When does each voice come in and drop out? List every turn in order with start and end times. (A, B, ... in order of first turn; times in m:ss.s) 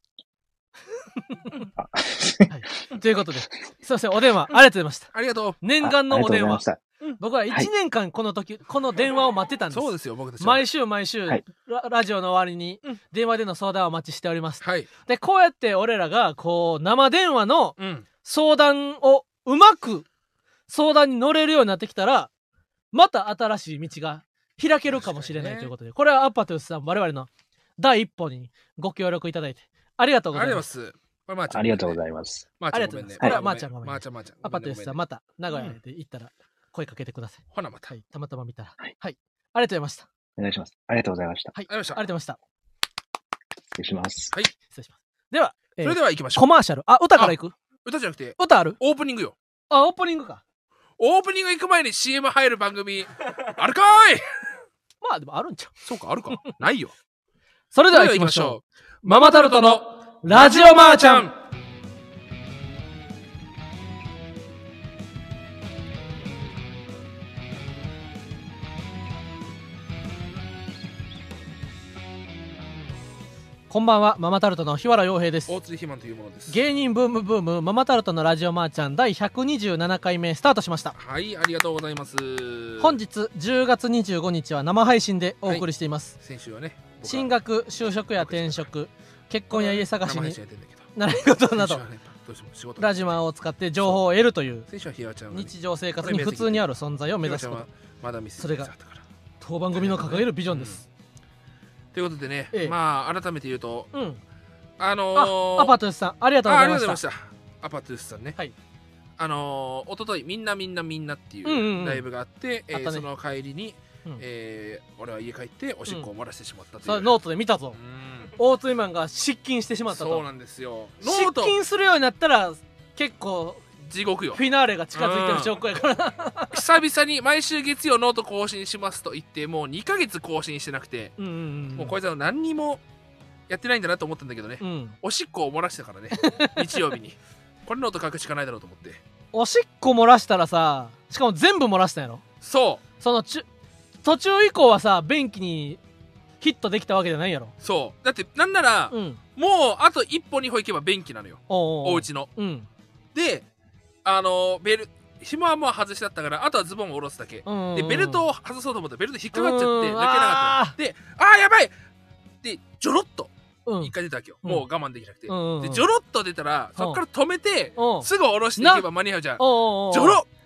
0:01.3-0:01.6 A
0:01.8-0:02.5 B
0:02.5-0:06.6 A
0:05.1-0:05.6 C
0:05.8-0:06.8 B
0:07.2-0:20.1 A
0:09.7-0:10.6 C
0:14.6-0:14.9 C
0:17.8-0:18.0 C
0:20.7-0:22.3 A
0:22.9-0:30.7 A
0:25.0-0:25.7 C
0:30.3-0:32.0 C
0:31.5-0:32.5 B
0:32.6-0:35.0 C
0:32.7-0:40.1 A
0:37.5-0:37.9 C
0:40.4-0:41.5 B
0:41.5-0:42.4 A
0:41.7-0:42.0 C
0:43.8-0:44.3 B
0:44.7-0:47.5 A
0:45.8-0:46.5 C
0:47.2-0:49.4 C
0:48.4-0:48.8 A
0:49.7-0:50.4 A
0:51.0-0:54.2 C
0:55.0-0:55.7 A
0:55.8-0:56.9 C
0:57.7-1:01.3 A
0:57.9-1:01.3 C
1:13.7-1:15.5 A
1:15.5-1:16.6 C
1:16.5-1:21.0 A
1:21.0-1:23.0 C
1:22.8-1:26.2 A
1:26.2-1:28.7 C
1:27.0-1:30.4 A
1:29.5-1:30.9 C
1:31.0-1:31.8 A
1:31.5-1:33.2 C
1:32.8-1:34.7 A
1:34.7-1:36.6 C
1:35.3-1:37.7 A
1:37.2-1:39.0 C
1:38.4-1:38.7 A
1:39.4-1:40.8 A
1:39.8-1:40.8 C
1:41.9-1:43.9 C
1:43.9-1:44.2 A
1:44.8-1:45.8 C
1:45.2-1:47.0 A
1:46.4-1:48.4 C
1:49.2-1:57.2 C
1:51.4-1:52.0 A
1:52.7-1:53.0 A
1:56.8-1:57.8 A
1:57.7-1:58.3 C
1:58.4-2:00.2 A
1:59.9-2:01.6 C
2:01.0-2:03.6 A
2:03.9-2:04.4 C
2:04.3-2:06.6 A
2:04.9-2:05.6 C
2:06.5-2:11.2 C
2:11.2-2:12.0 A
2:11.8-2:12.8 C
2:13.5-2:19.0 C
2:14.6-2:15.0 A
2:16.2-2:16.7 A
2:19.3-2:22.2 A
2:22.4-2:22.8 C
2:23.0-2:23.5 A
2:24.0-2:25.8 A
2:26.4-2:27.5 A
2:27.6-2:32.3 C
2:28.9-2:29.2 A
2:31.5-2:32.7 A
2:33.2-2:33.5 C
2:34.0-2:41.7 C
2:37.5-2:38.2 A
2:39.3-2:40.8 A
2:42.4-2:43.3 C
2:43.7-2:43.9 A
2:43.8-2:50.3 C
2:45.3-2:45.9 A
2:46.8-2:47.0 A
2:47.8-2:48.8 A
2:49.4-2:50.2 A